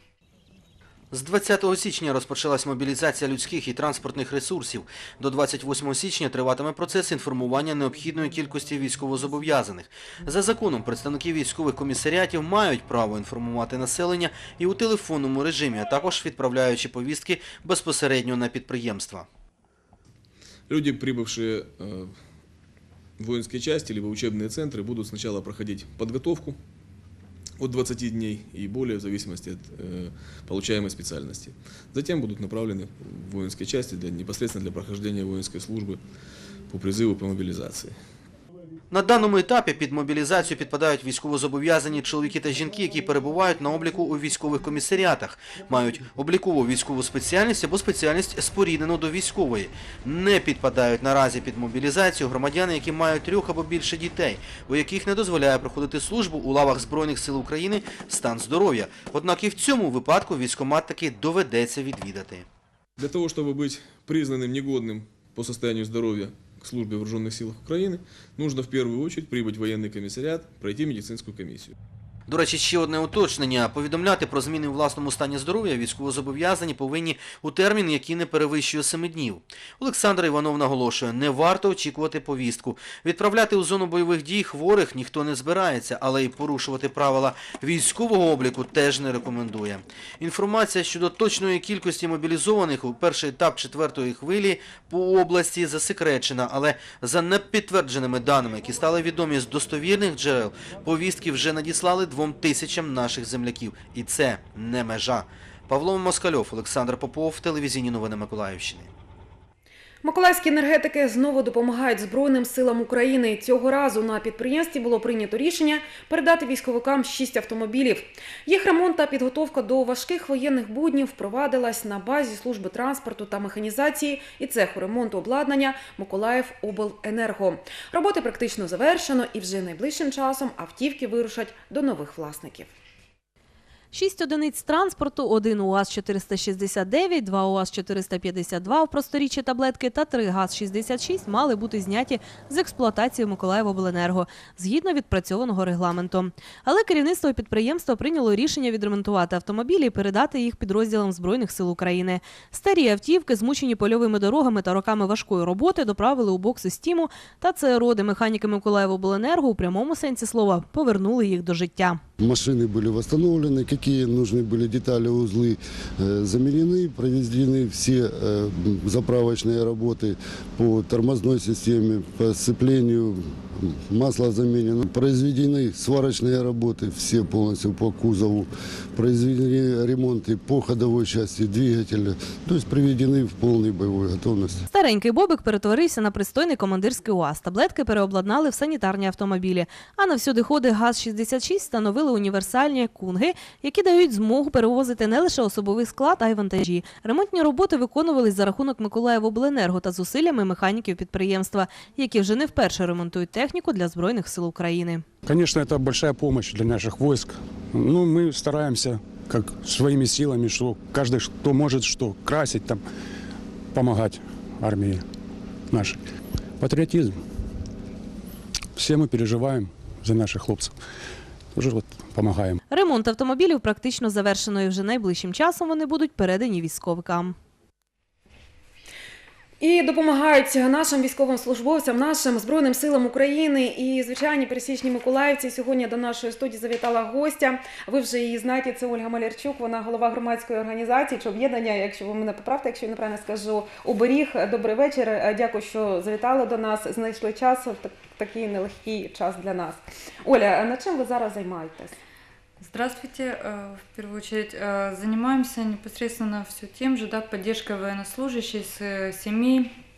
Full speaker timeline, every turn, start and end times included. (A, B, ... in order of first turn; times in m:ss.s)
0:01.1-0:19.3 A
0:20.7-0:22.1 B
0:23.2-0:26.6 B
0:27.6-0:36.0 B
0:36.7-0:38.0 B
0:38.9-1:02.5 A
1:03.0-1:11.7 B
1:12.3-1:48.9 A
1:50.0-2:12.7 C
2:13.9-2:42.0 D
2:42.2-3:04.6 E
3:04.7-3:25.0 D
3:25.2-3:32.8 F
3:33.7-3:35.0 F
3:35.7-3:36.0 F
3:36.6-3:37.2 F
3:38.8-3:40.8 F
3:41.5-3:42.6 F
3:42.7-3:47.4 D
3:49.6-4:12.0 C
4:12.6-4:19.7 G